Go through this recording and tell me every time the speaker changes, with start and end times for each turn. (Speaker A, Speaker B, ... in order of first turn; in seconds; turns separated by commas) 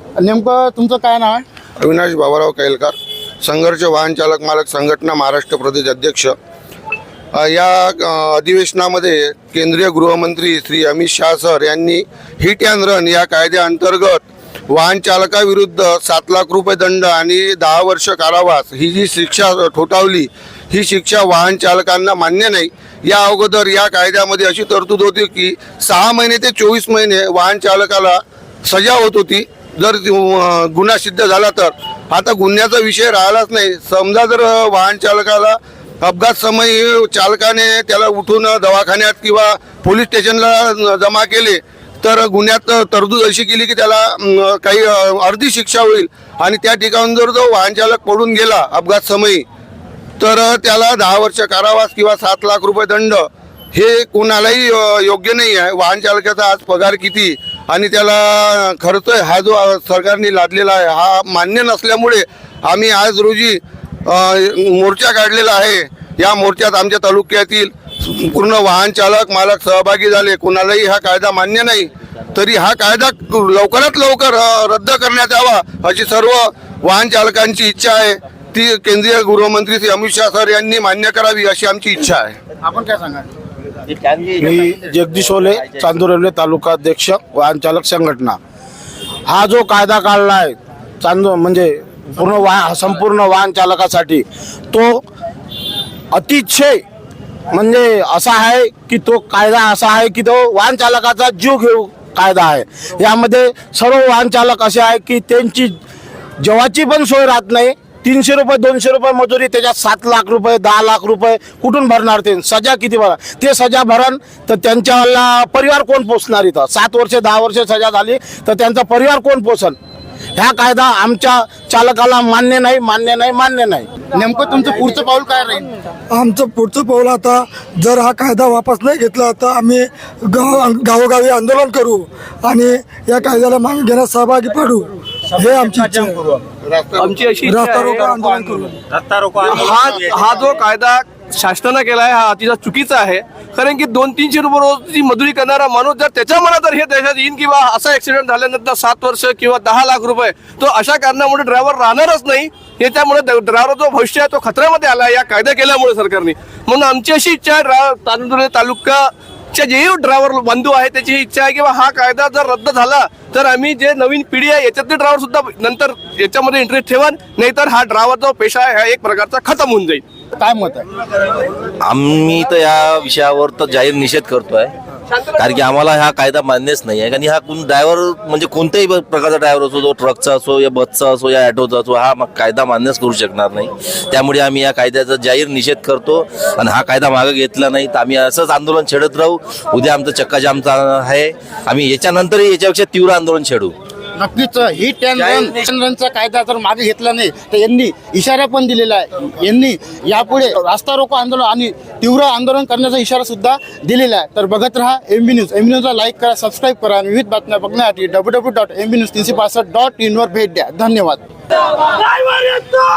Speaker A: 0.2-1.4, Speaker B: 1.8-6.3, Speaker B: 7.3-49.5, Speaker B: 50.2-82.4, Speaker A: 82.6-83.3, Speaker C: 83.9-85.9, Speaker D: 84.4-88.4, Speaker D: 89.3-95.0, Speaker D: 96.1-96.8, Speaker D: 97.5-105.8, Speaker D: 106.4-119.8, Speaker D: 120.4-123.9, Speaker A: 124.1-125.7, Speaker E: 126.1-136.3, Speaker B: 136.6-137.3, Speaker F: 137.0-138.1, Speaker E: 137.4-138.8, Speaker F: 139.4-170.0, Speaker A: 170.4-170.9, Speaker C: 171.8-174.7, Speaker F: 175.1-175.6, Speaker C: 175.4-193.7, Speaker A: 194.2-211.2, Speaker C: 195.2-195.7